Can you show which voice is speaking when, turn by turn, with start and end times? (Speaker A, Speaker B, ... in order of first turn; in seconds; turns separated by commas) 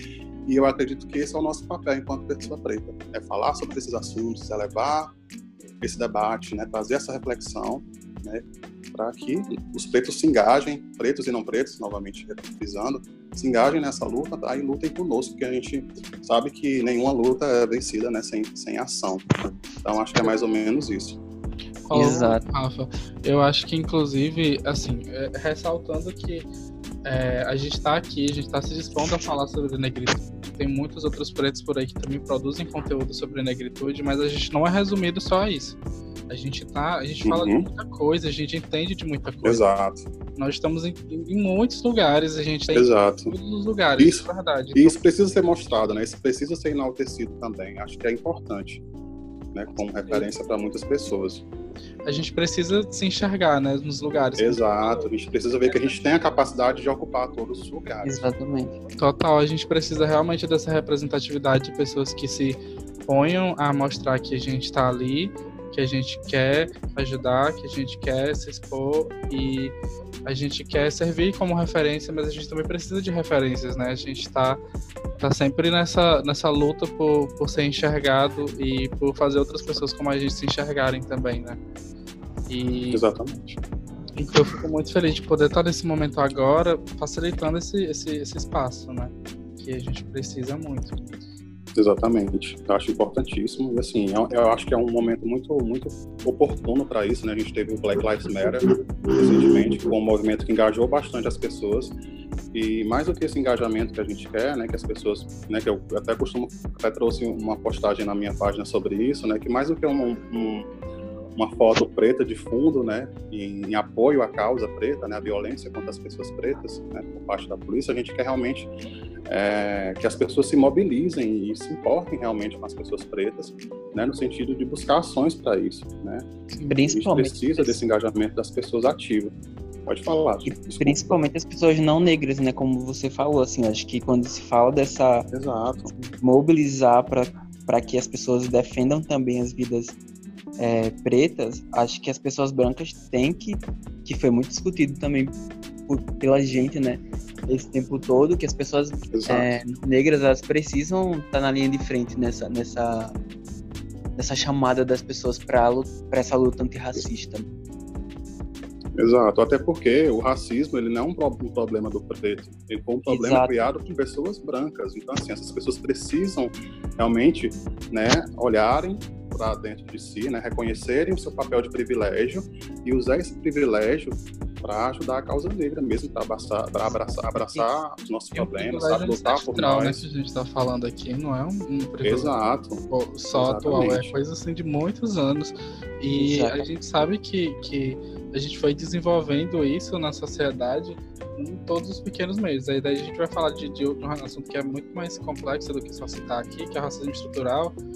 Speaker A: 0.5-5.1, Speaker A: 5.8-21.2, Speaker B: 21.9-26.5, Speaker C: 21.9-22.4, Speaker B: 27.1-35.8, Speaker B: 36.3-39.6, Speaker A: 37.2-37.7, Speaker A: 39.4-40.0, Speaker B: 40.4-45.0, Speaker A: 42.7-43.3, Speaker A: 44.0-48.8, Speaker A: 49.5-51.4, Speaker B: 52.0-55.1, Speaker A: 54.4-58.2, Speaker B: 55.7-55.9, Speaker C: 58.0-58.8, Speaker B: 59.0-74.6, Speaker B: 75.2-81.6, Speaker B: 82.5-83.0, Speaker A: 82.9-83.6, Speaker B: 84.2-90.9, Speaker A: 91.8-102.0, Speaker A: 102.5-110.7, Speaker A: 111.4-118.7, Speaker A: 119.3-126.3, Speaker C: 126.7-127.8, Speaker A: 126.9-129.3, Speaker A: 129.9-131.1, Speaker C: 130.8-135.3, Speaker A: 135.3-135.9, Speaker C: 136.0-140.0, Speaker C: 140.6-145.3, Speaker C: 145.9-153.2, Speaker A: 149.1-149.6, Speaker C: 154.2-157.5, Speaker A: 159.0-180.1, Speaker C: 163.1-163.7, Speaker C: 176.9-177.7, Speaker B: 178.3-182.4, Speaker A: 182.0-184.1, Speaker B: 182.9-197.8, Speaker C: 186.1-186.6